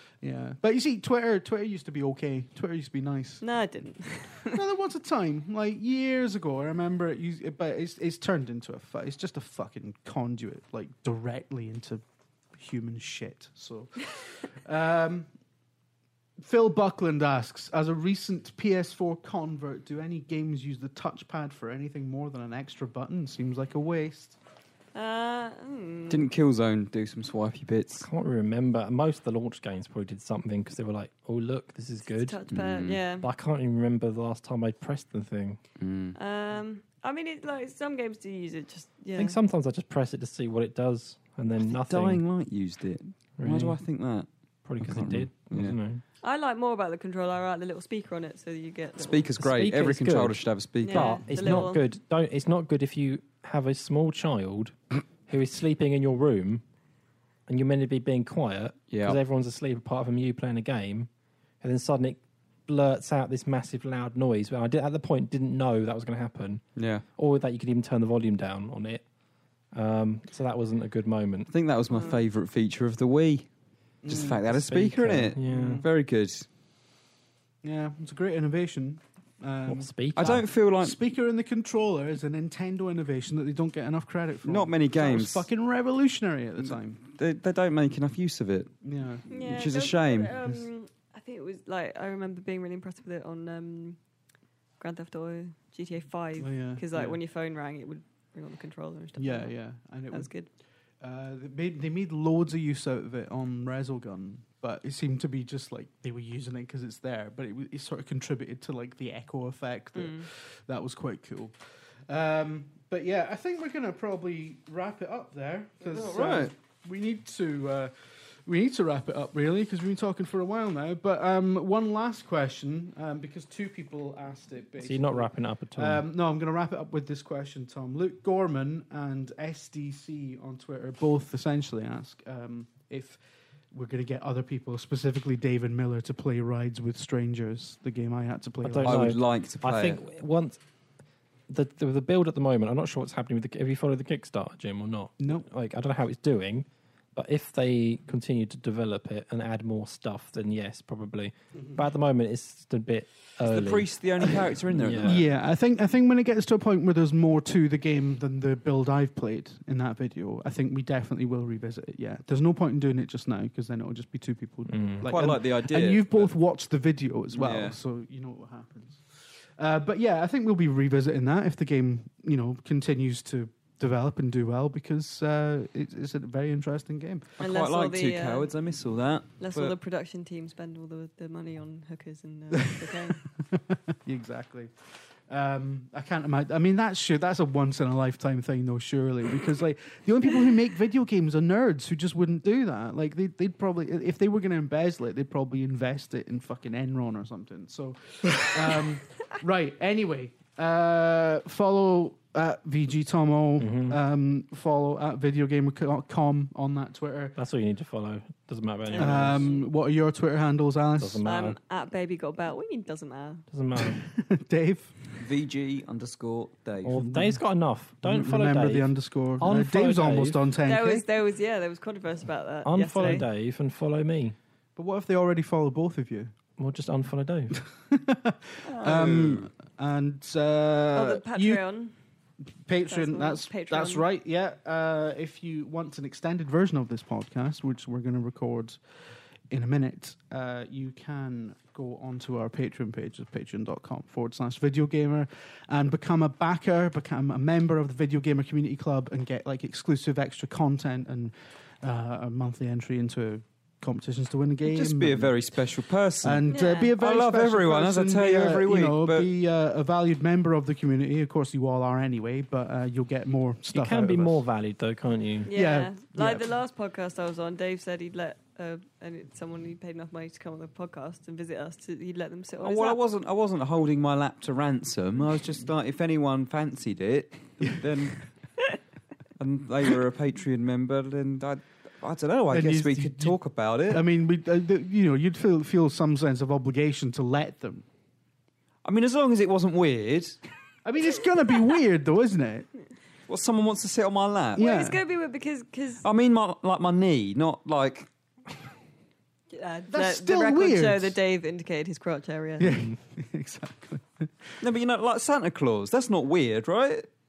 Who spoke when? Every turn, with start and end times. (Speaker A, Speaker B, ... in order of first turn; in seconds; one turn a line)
Speaker A: 0.2-3.4
Speaker B: 3.4-4.6
Speaker A: 4.5-12.0
Speaker A: 12.5-15.3
Speaker A: 16.4-24.4
Speaker B: 24.9-26.3
Speaker C: 26.1-28.1
Speaker D: 28.0-32.4
Speaker B: 32.1-33.3
Speaker C: 32.5-33.0
Speaker D: 33.2-35.6
Speaker C: 35.8-36.2
Speaker B: 36.2-39.4
Speaker D: 39.2-42.2
Speaker C: 41.6-44.3
Speaker D: 43.4-43.8
Speaker D: 44.6-46.0
Speaker C: 44.8-45.8
Speaker B: 46.2-49.2
Speaker C: 49.0-51.7
Speaker D: 49.4-54.8
Speaker B: 50.8-51.8
Speaker D: 55.3-56.6
Speaker D: 57.5-61.1
Speaker C: 58.9-59.2
Speaker D: 61.6-66.6
Speaker C: 66.8-67.0
Speaker D: 67.2-69.0
Speaker D: 69.7-71.5
Speaker C: 71.5-73.5
Speaker B: 71.9-72.2
Speaker A: 74.0-74.4
Speaker C: 74.1-76.5
Speaker D: 74.5-75.8
Speaker A: 75.4-75.8
Speaker A: 77.6-79.9
Speaker D: 79.7-80.5
Speaker C: 80.2-81.0
Speaker A: 80.8-87.0
Speaker C: 84.4-85.5
Speaker C: 87.0-88.7
Speaker A: 88.8-89.3
Speaker B: 89.3-94.0
Speaker C: 89.3-90.5
Speaker B: 94.8-99.5
Speaker A: 96.4-97.2
Speaker A: 99.2-100.3
Speaker B: 100.1-100.5
Speaker A: 101.0-111.5
Speaker B: 110.0-110.3
Speaker A: 112.1-117.9
Speaker C: 115.9-116.5
Speaker A: 118.5-133.2
Speaker D: 124.8-126.0
Speaker A: 133.7-139.1
Speaker D: 138.6-140.6
Speaker C: 138.8-140.0
Speaker D: 141.5-153.9
Speaker A: 145.2-145.5
Speaker C: 153.4-155.3
Speaker D: 154.7-155.2
Speaker A: 155.0-177.4
Speaker D: 164.7-165.1
Speaker C: 165.0-166.3
Speaker C: 167.3-167.8
Speaker B: 177.4-178.5
Speaker C: 177.4-179.8
Speaker B: 179.4-183.2
Speaker A: 182.6-207.4
Speaker D: 203.6-204.0
Speaker D: 207.4-209.5
Speaker B: 208.9-209.7
Speaker A: 209.0-211.2
Speaker D: 211.0-211.6
Speaker B: 211.2-213.4
Speaker D: 213.5-214.0
Speaker A: 213.8-215.0
Speaker C: 215.2-217.0
Speaker D: 216.8-220.4
Speaker A: 217.0-217.4
Speaker A: 218.0-221.0
Speaker B: 220.7-223.2
Speaker D: 222.7-224.4
Speaker A: 224.8-226.3
Speaker D: 226.6-227.6
Speaker A: 227.9-231.6
Speaker C: 228.7-229.5
Speaker B: 230.9-231.9
Speaker A: 232.7-238.8
Speaker B: 232.9-234.1
Speaker A: 239.5-264.4
Speaker C: 254.6-259.3
Speaker B: 256.5-256.9
Speaker D: 263.7-265.5
Speaker B: 265.5-273.0
Speaker A: 265.5-266.4
Speaker C: 272.6-278.3
Speaker C: 279.4-284.0
Speaker A: 282.5-287.9
Speaker C: 288.8-290.4
Speaker A: 290.9-292.7
Speaker C: 293.3-294.6
Speaker A: 294.6-295.0
Speaker B: 294.6-296.1
Speaker C: 296.0-298.1
Speaker B: 299.5-302.7
Speaker A: 299.9-301.1
Speaker A: 302.6-304.6
Speaker C: 304.6-307.1